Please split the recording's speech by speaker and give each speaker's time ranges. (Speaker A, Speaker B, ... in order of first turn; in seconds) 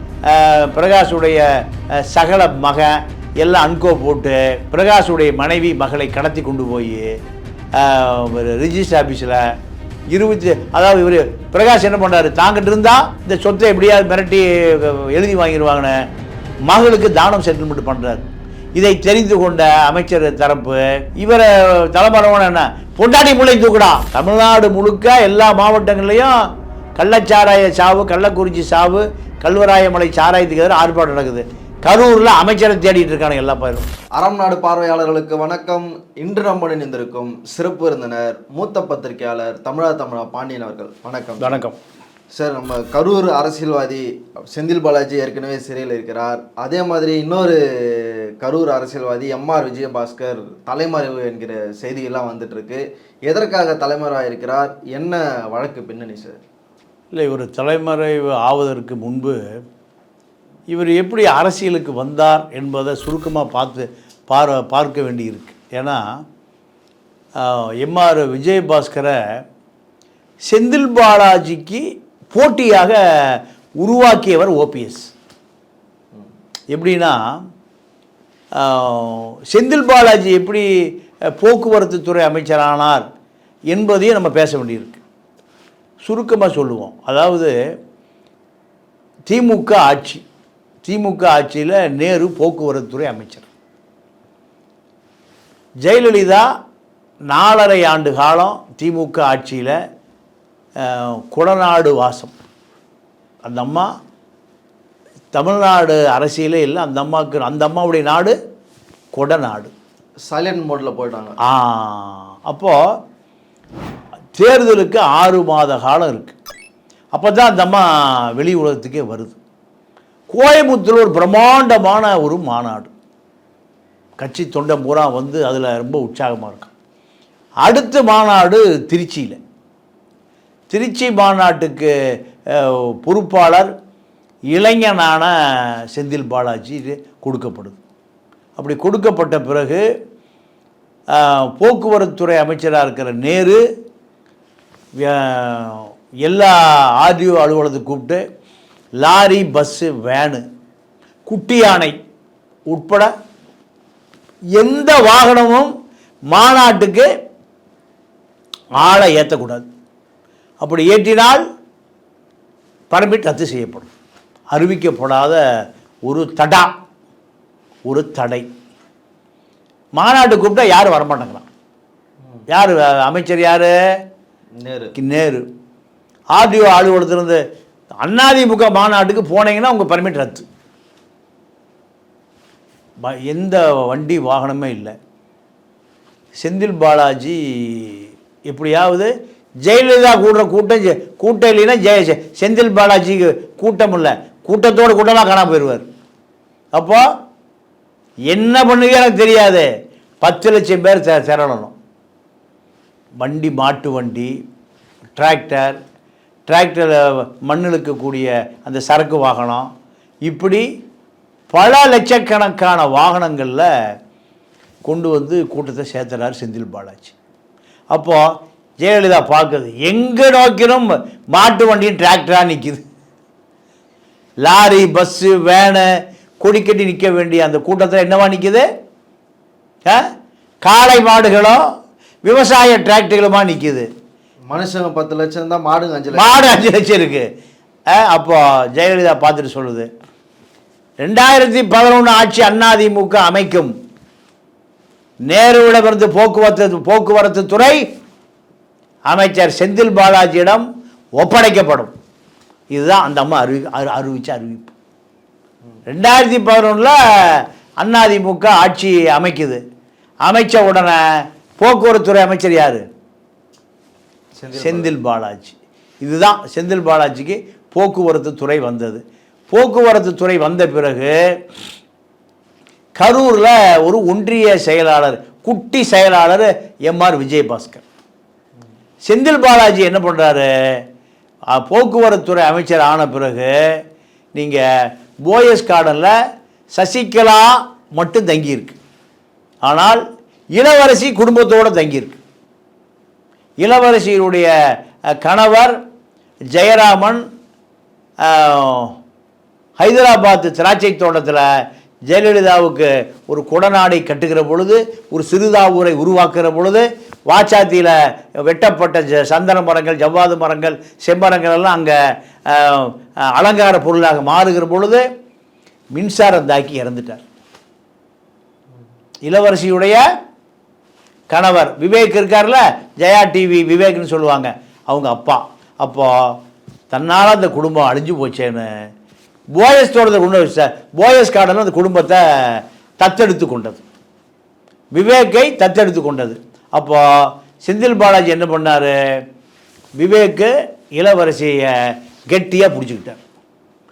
Speaker A: 0.2-7.1, 7.7-9.5, 10.1-16.0, 16.6-26.4, 27.0-33.9, 41.4-41.8, 57.1-59.4, 60.7-66.2, 67.3-69.2, 70.5-75.1, 76.7-77.4, 78.5-80.7, 81.3-83.0, 83.7-85.0, 86.0-87.5, 89.3-90.2, 90.8-93.5, 95.8-96.5, 97.3-99.8, 100.8-102.3, 103.4-103.9, 105.3-108.3, 109.1-109.7, 111.4-112.8, 114.3-116.3, 117.1-119.4, 120.3-122.9, 124.2-126.7, 127.6-129.4, 130.7-131.9, 132.4-133.7, 134.5-137.8, 138.6-139.8, 141.1-143.6, 144.9-148.2, 149.0-150.4, 151.2-151.9, 152.7-153.1, 154.6-155.7, 156.3-157.1, 158.8-159.7, 160.6-161.4, 162.9-163.9, 164.5-165.4, 166.1-166.7, 167.8-168.5, 169.9-171.4, 172.5-173.7, 174.9-175.4, 176.3-177.4, 178.0-180.4, 183.0-184.9, 186.4-189.1, 189.6-195.9, 196.7-197.0, 198.3-199.7, 200.2-201.7, 203.2-204.3, 205.2-205.8, 206.5-209.7, 210.2-210.6, 211.5-213.7, 214.8-217.1, 217.9-218.2, 218.8-222.8, 224.4-225.9, 226.4-228.7, 230.6-231.6, 232.2-233.9, 236.1-237.3, 237.9-239.9, 241.0-243.7, 245.3-247.8, 249.1-250.6, 251.2-251.9, 252.7-254.7, 255.9-259.6, 260.2-261.0, 261.6-262.8, 264.6-271.1, 273.0-277.8, 279.1-280.8, 281.6-283.5, 284.3-286.1, 286.7-288.8, 289.6-290.0, 290.5-292.2, 293.6-294.5, 295.2-295.8, 296.5-297.2, 298.2-298.9, 299.8-301.4, 302.1-315.0, 315.9-317.2, 319.2-320.0, 321.3-326.4, 326.9-328.7, 329.6-333.8, 334.9-338.9, 340.0-343.2
Speaker B: 34.2-41.6, 42.3-56.4, 110.3-111.3, 174.6-174.9, 234.5-236.6, 264.4-264.9